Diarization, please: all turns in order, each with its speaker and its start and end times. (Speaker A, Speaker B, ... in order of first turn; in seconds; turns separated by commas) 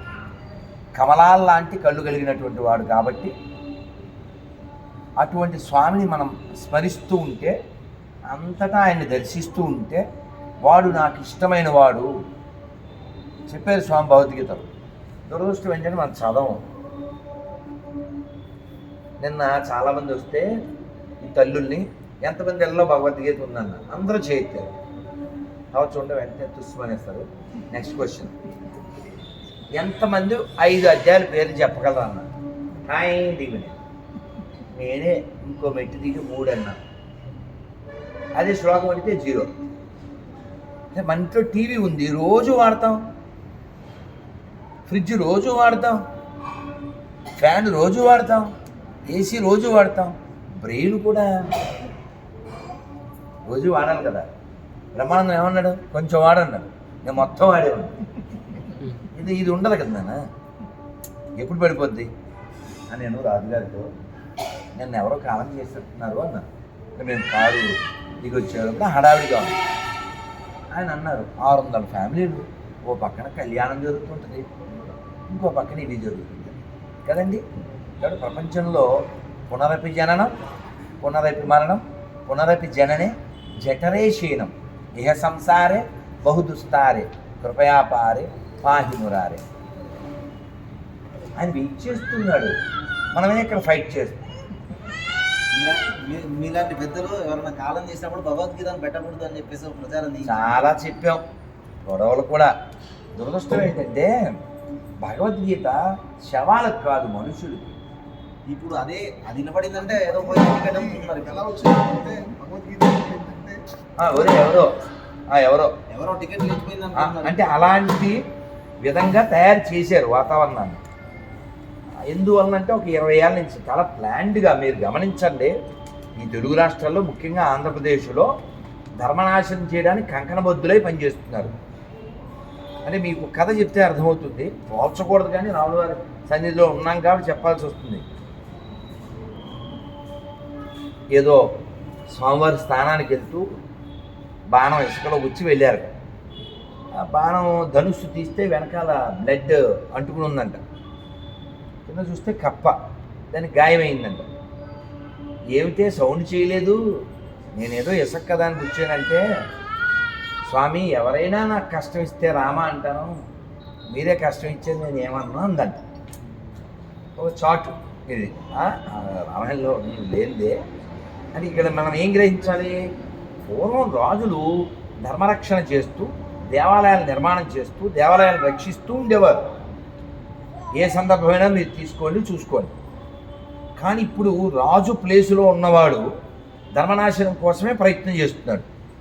Speaker A: 0.9-3.3, Speaker A: 5.2-7.5, Speaker A: 8.3-10.0, Speaker A: 10.6-12.1, Speaker A: 13.5-14.7, Speaker A: 15.3-16.6, Speaker A: 19.2-20.5, Speaker A: 21.2-24.7, Speaker A: 25.7-28.4, Speaker A: 29.8-32.3, Speaker A: 32.9-33.8, Speaker A: 34.7-36.8, Speaker A: 38.4-39.5, Speaker A: 40.9-43.0, Speaker A: 44.9-46.0, Speaker A: 47.4-48.5, Speaker A: 49.1-51.3, Speaker A: 53.5-54.3, Speaker A: 55.0-57.9, Speaker A: 59.1-60.2, Speaker A: 61.4-62.1, Speaker A: 62.9-63.9, Speaker A: 64.8-66.5, Speaker A: 67.0-69.6, Speaker A: 70.7-74.5, Speaker A: 75.3-77.4, Speaker A: 78.0-78.9, Speaker A: 79.5-80.3, Speaker A: 81.0-89.4, Speaker A: 91.4-92.5, Speaker A: 93.1-94.2, Speaker B: 95.5-100.5, Speaker A: 100.3-101.2, Speaker A: 101.8-102.5, Speaker A: 103.2-104.1, Speaker A: 105.0-107.8, Speaker B: 108.5-111.7, Speaker C: 110.3-113.6, Speaker A: 114.0-114.7, Speaker A: 115.3-115.7, Speaker B: 115.9-117.5, Speaker A: 117.0-118.2, Speaker A: 118.8-120.8, Speaker A: 122.1-125.5, Speaker A: 126.2-128.3, Speaker A: 129.0-131.5, Speaker A: 132.8-138.0, Speaker A: 141.1-141.4, Speaker A: 142.1-143.4, Speaker A: 144.5-145.9, Speaker A: 147.0-150.6, Speaker A: 151.9-152.7, Speaker A: 153.3-154.3, Speaker A: 155.5-156.8, Speaker A: 157.6-159.2, Speaker A: 160.4-163.1, Speaker A: 163.9-165.8, Speaker A: 167.2-170.6, Speaker A: 171.3-172.8, Speaker A: 173.5-179.4, Speaker A: 180.8-182.7, Speaker A: 183.8-186.1, Speaker A: 186.8-188.7